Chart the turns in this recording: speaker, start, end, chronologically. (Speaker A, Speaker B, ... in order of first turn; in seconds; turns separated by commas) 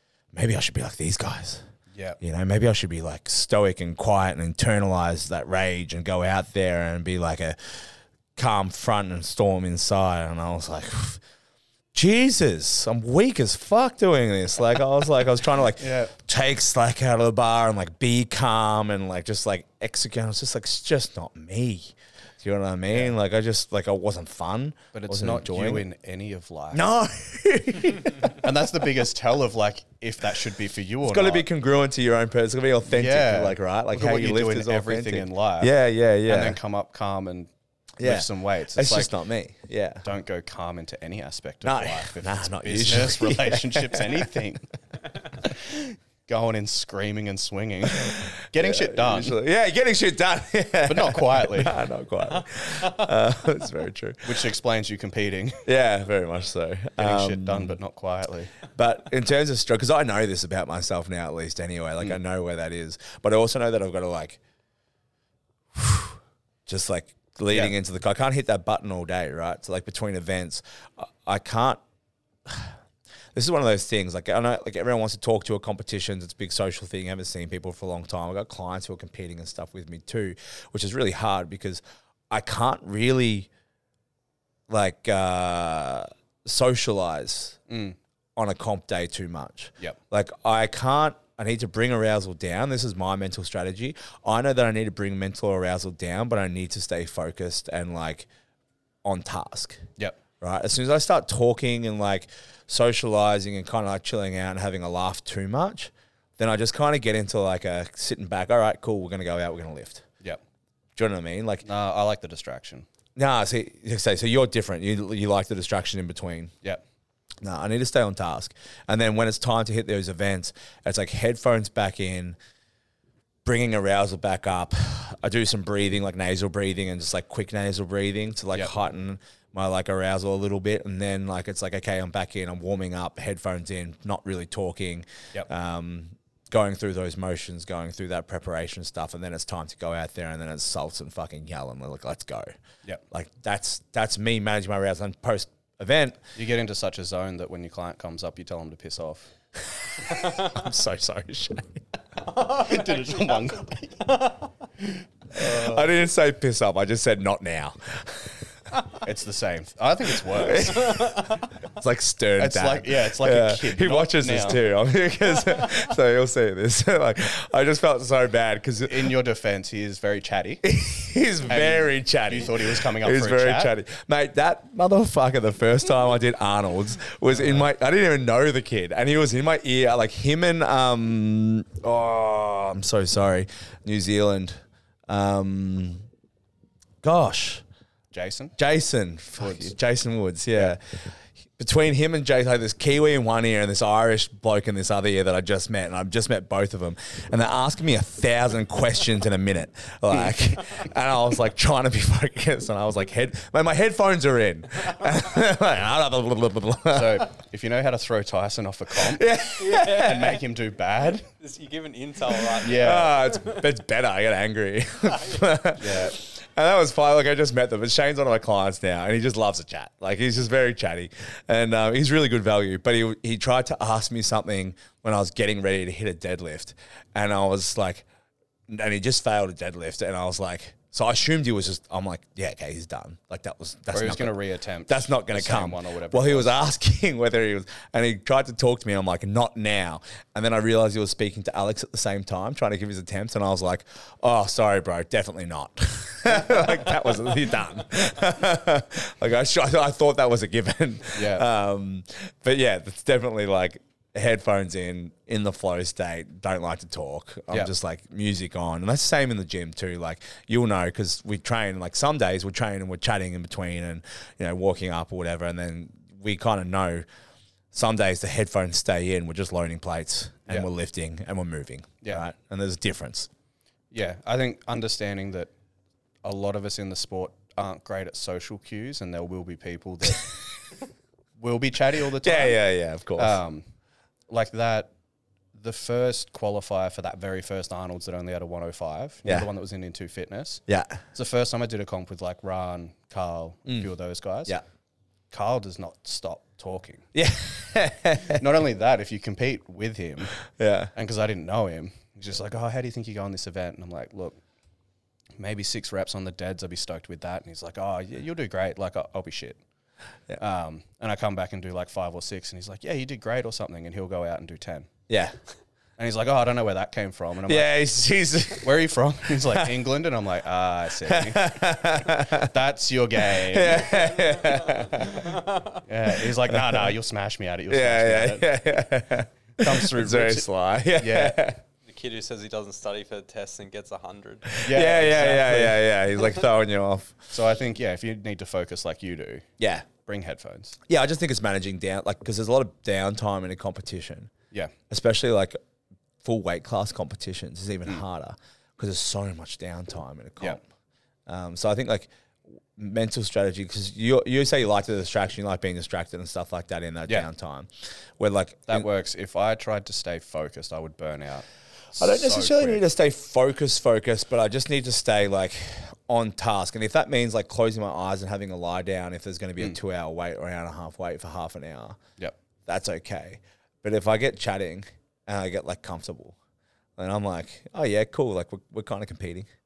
Speaker A: 0.3-1.6, Speaker B: 1.9-2.2, Speaker A: 2.2-11.2, Speaker A: 11.9-25.8, Speaker B: 15.8-16.1, Speaker B: 24.9-26.9, Speaker A: 26.7-28.4, Speaker B: 28.2-31.5, Speaker A: 31.0-36.6, Speaker B: 32.9-37.5, Speaker A: 38.0-40.0, Speaker B: 38.0-39.1, Speaker B: 40.0-44.7, Speaker A: 41.6-44.4, Speaker B: 45.4-49.4, Speaker A: 48.0-54.4, Speaker B: 50.9-51.8, Speaker B: 54.2-55.6, Speaker A: 55.6-57.8, Speaker B: 57.0-58.5, Speaker A: 58.7-64.4, Speaker A: 65.7-71.8, Speaker A: 72.4-72.8, Speaker A: 73.3-83.5, Speaker A: 84.7-87.6, Speaker B: 87.7-88.0, Speaker A: 88.3-98.3, Speaker A: 99.0-99.8, Speaker A: 100.4-110.0, Speaker A: 111.0-111.7, Speaker B: 111.6-112.9, Speaker A: 113.2-116.5, Speaker A: 117.4-122.3, Speaker A: 123.4-142.5, Speaker A: 143.1-146.2, Speaker B: 146.3-149.3, Speaker A: 149.7-151.8, Speaker B: 152.3-155.9, Speaker C: 152.4-153.4, Speaker A: 155.3-158.5, Speaker B: 159.0-161.1, Speaker A: 160.3-169.1, Speaker B: 162.4-164.6, Speaker B: 168.8-170.6, Speaker A: 170.6-184.6, Speaker B: 171.5-173.7, Speaker B: 177.3-177.7, Speaker A: 185.1-186.0, Speaker A: 187.0-187.6, Speaker B: 188.1-188.6, Speaker A: 188.6-207.2, Speaker B: 189.4-189.7, Speaker B: 206.9-211.3, Speaker A: 208.9-210.4, Speaker C: 209.6-210.3, Speaker C: 211.3-213.6, Speaker B: 212.6-213.1, Speaker A: 212.7-228.1, Speaker B: 215.7-216.2, Speaker A: 228.7-234.4, Speaker B: 233.9-236.5, Speaker A: 234.9-267.0, Speaker B: 251.1-251.4, Speaker A: 267.7-273.3, Speaker B: 273.9-275.5, Speaker B: 276.2-280.3, Speaker B: 281.4-282.6, Speaker A: 282.2-283.4, Speaker B: 283.1-283.6, Speaker B: 284.3-284.9, Speaker B: 285.5-294.6, Speaker A: 290.7-291.0, Speaker B: 295.3-297.1, Speaker A: 297.1-298.4, Speaker B: 298.2-300.4, Speaker A: 300.5-300.9, Speaker B: 300.9-304.4, Speaker B: 305.4-309.6, Speaker B: 310.4-314.9, Speaker A: 315.1-315.3, Speaker B: 316.0-317.7, Speaker A: 317.4-318.8, Speaker B: 318.6-324.1, Speaker A: 319.4-319.8, Speaker A: 321.0-322.5, Speaker A: 323.3-325.4, Speaker C: 325.2-325.7, Speaker B: 325.8-328.5, Speaker A: 326.1-326.9, Speaker A: 327.7-331.6, Speaker B: 329.6-331.4, Speaker C: 331.9-334.6, Speaker A: 334.5-337.2, Speaker B: 334.6-335.8, Speaker B: 337.3-339.5, Speaker A: 339.6-339.9, Speaker B: 340.0-340.8, Speaker A: 340.9-344.3, Speaker A: 344.9-345.6, Speaker A: 346.2-350.6, Speaker A: 351.3-352.1, Speaker A: 352.7-358.9, Speaker B: 358.7-362.8, Speaker A: 362.0-372.0, Speaker A: 372.6-376.4, Speaker A: 377.0-379.5